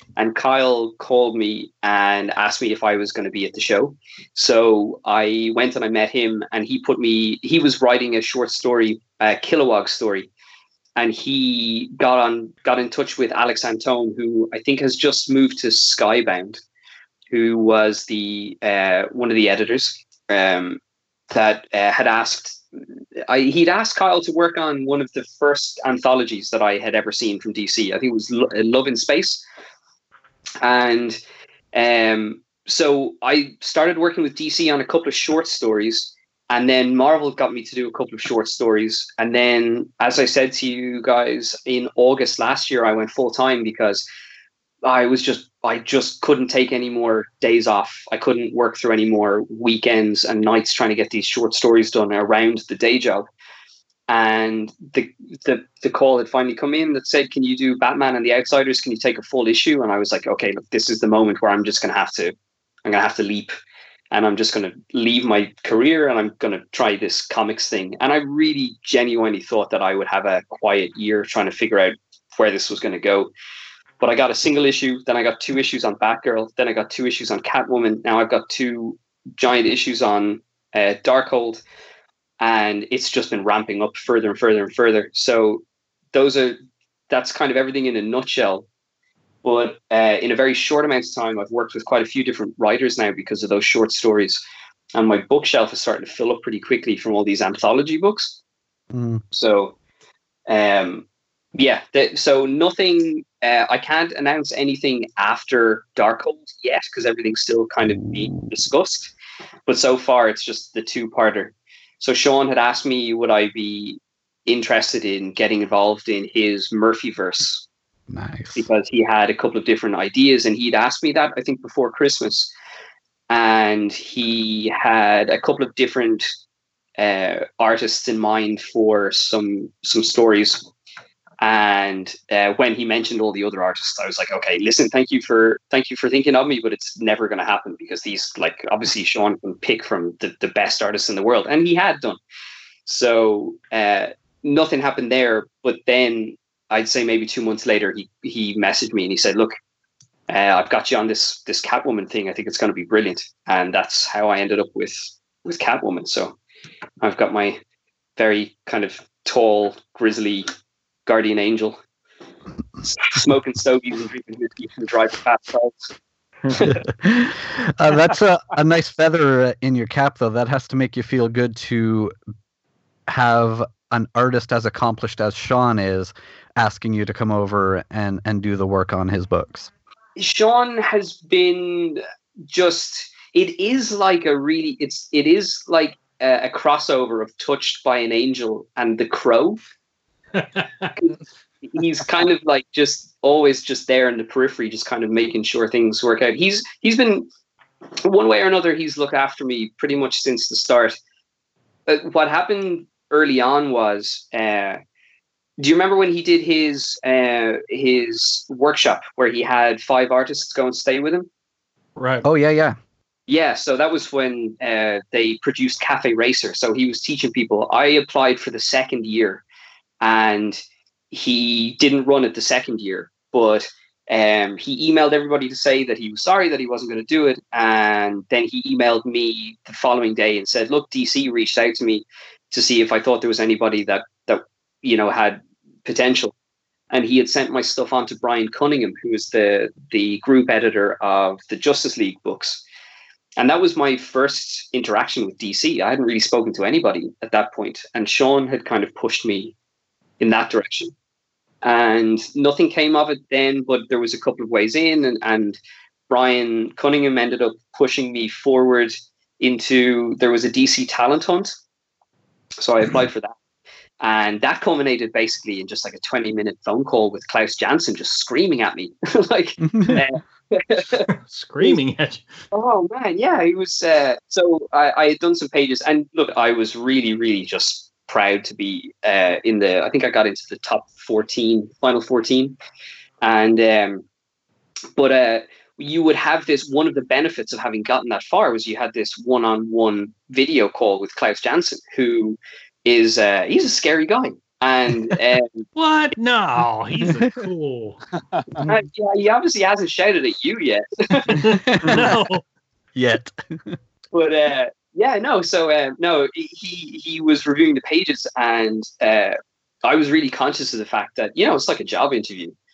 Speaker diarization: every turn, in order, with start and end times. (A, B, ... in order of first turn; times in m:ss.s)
0:00.2-0:10.3 A
0:11.0-0:16.6 A
0:17.3-0:20.8 A
0:21.3-0:22.6 A
0:23.3-0:29.4 A
0:30.6-0:31.2 A
0:31.7-0:44.1 A
0:44.8-0:53.3 A
0:54.1-1:02.3 A
1:02.8-1:03.5 A
1:04.1-1:13.3 A
1:14.0-1:21.6 A
1:22.4-1:26.6 A
1:27.1-1:28.6 A
1:29.4-1:34.4 A
1:34.9-1:38.4 A
1:38.9-1:39.2 B
1:39.3-1:39.8 A
1:40.5-1:49.1 A
1:49.7-1:57.7 A
1:58.1-1:58.7 B
1:58.6-2:02.5 A
2:03.3-2:06.3 A
2:07.0-2:10.7 A
2:11.4-2:22.2 A
2:22.9-2:29.5 A
2:30.3-2:36.3 A
2:37.0-2:37.6 A
2:38.2-2:40.5 A
2:41.0-2:41.8 A
2:42.8-2:46.0 A
2:46.5-2:46.8 A
2:46.7-2:52.1 B
2:53.1-2:59.7 B
3:00.2-3:09.6 A
3:10.3-3:10.9 C
3:11.0-3:17.3 A
3:18.0-3:21.0 A
3:21.9-3:24.8 A
3:25.6-3:31.3 A
3:32.0-3:32.3 C
3:32.2-3:32.8 B
3:33.3-3:39.4 A
3:40.0-3:56.3 A
3:56.9-4:02.6 A
4:03.4-4:09.6 A
4:10.2-4:10.9 A
4:11.6-4:15.6 A
4:16.1-4:21.6 A
4:22.6-4:23.3 A
4:24.0-4:31.0 A
4:29.6-4:30.0 B
4:31.1-4:32.3 C
4:32.5-4:42.6 A
4:43.2-4:44.0 A
4:45.0-4:55.7 A
4:55.8-4:58.0 C
4:58.7-5:01.3 A
5:01.3-5:02.4 C
5:01.5-5:02.1 B
5:03.0-5:03.8 B
5:04.1-5:12.6 A